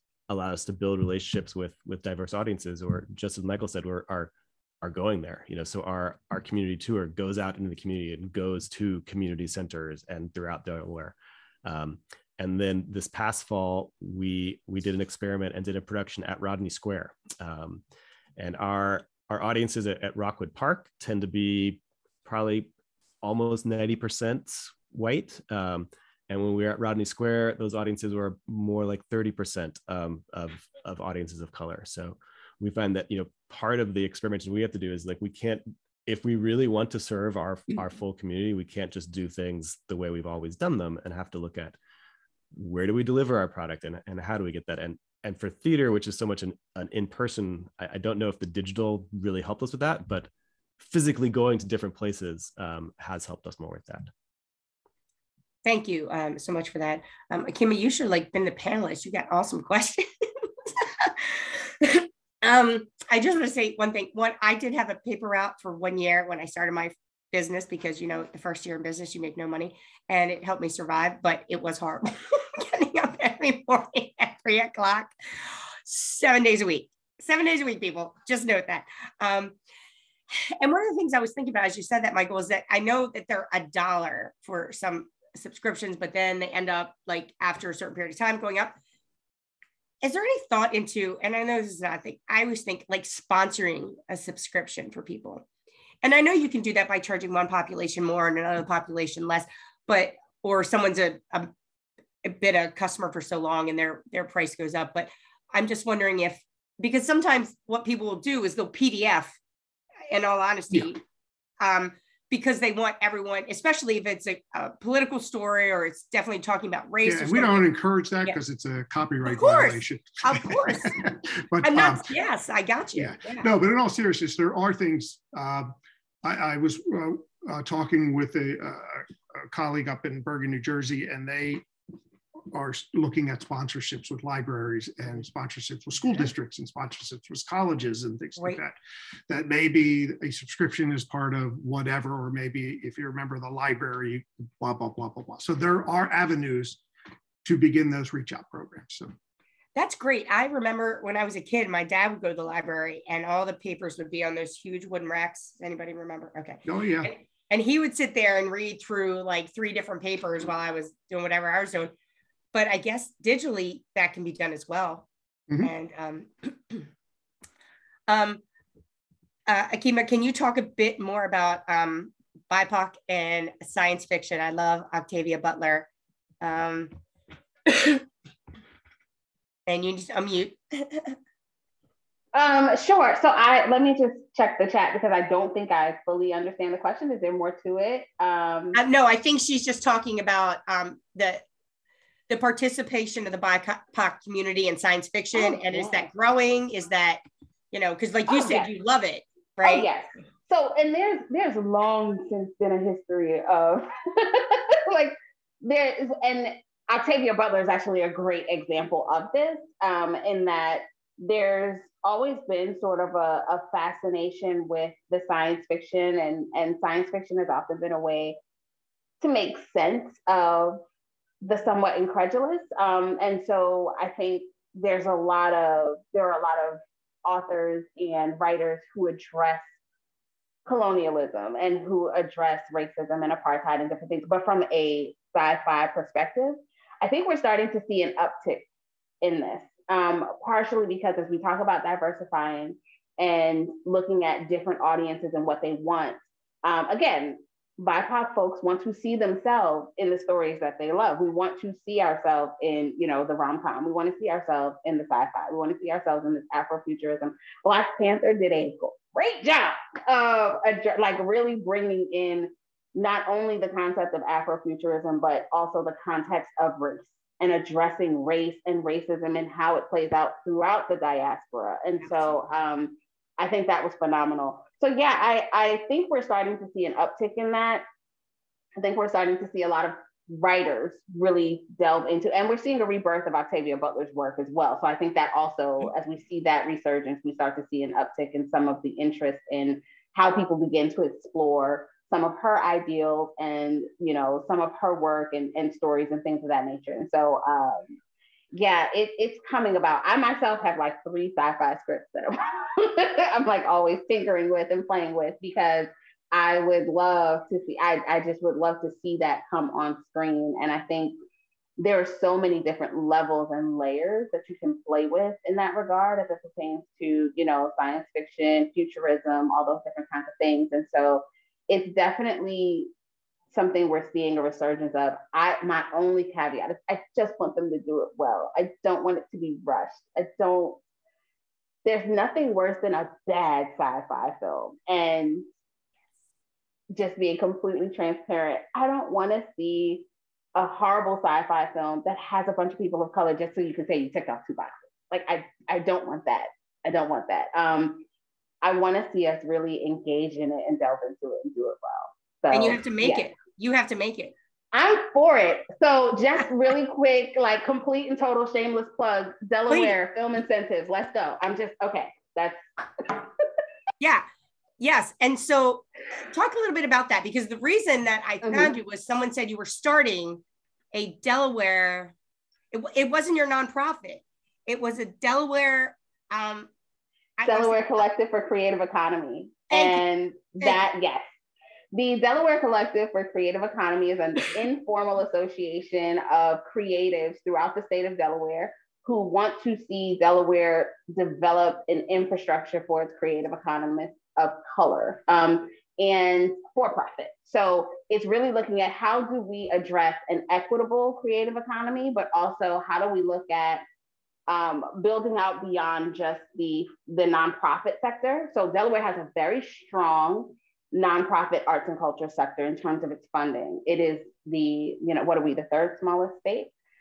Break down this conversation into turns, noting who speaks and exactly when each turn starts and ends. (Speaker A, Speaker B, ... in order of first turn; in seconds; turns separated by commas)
Speaker A: 0.3-11.1, Speaker A: 11.6-17.8, Speaker A: 18.4-22.7, Speaker A: 23.2-41.8, Speaker A: 42.5-54.1, Speaker B: 55.6-79.5, Speaker B: 80.3-88.7, Speaker B: 90.0-95.4, Speaker B: 96.0-101.5, Speaker B: 102.2-109.4, Speaker B: 110.1-111.0, Speaker B: 111.6-117.7, Speaker C: 117.0-122.0, Speaker B: 119.3-121.1, Speaker B: 121.6-123.5, Speaker C: 123.0-125.7, Speaker C: 126.2-131.7, Speaker C: 132.5-138.8, Speaker C: 139.3-146.8, Speaker C: 147.4-149.1, Speaker B: 149.7-161.9, Speaker C: 156.7-157.1, Speaker B: 162.5-165.1, Speaker B: 165.6-166.9, Speaker B: 168.1-168.4, Speaker B: 169.5-175.9, Speaker B: 176.4-177.0, Speaker B: 177.7-178.0, Speaker B: 179.7-181.2, Speaker D: 182.3-188.8, Speaker B: 188.7-191.4, Speaker B: 192.3-199.9, Speaker D: 195.3-195.9, Speaker D: 198.3-198.7, Speaker D: 199.6-218.4, Speaker D: 219.2-220.8, Speaker D: 221.4-229.7, Speaker D: 230.7-238.6, Speaker D: 239.2-277.8, Speaker D: 278.8-298.0, Speaker D: 298.5-311.1, Speaker D: 311.8-322.9, Speaker D: 323.5-330.8, Speaker D: 331.8-335.4, Speaker D: 336.9-348.0, Speaker D: 348.6-353.3, Speaker B: 352.5-354.3, Speaker D: 354.7-363.2, Speaker B: 359.7-359.9, Speaker B: 364.0-364.2, Speaker B: 364.8-370.4, Speaker D: 368.4-368.7, Speaker B: 370.9-372.1, Speaker B: 372.7-376.7, Speaker B: 377.4-378.0, Speaker D: 377.4-381.2, Speaker B: 379.7-380.0, Speaker D: 381.9-403.8, Speaker D: 404.5-416.7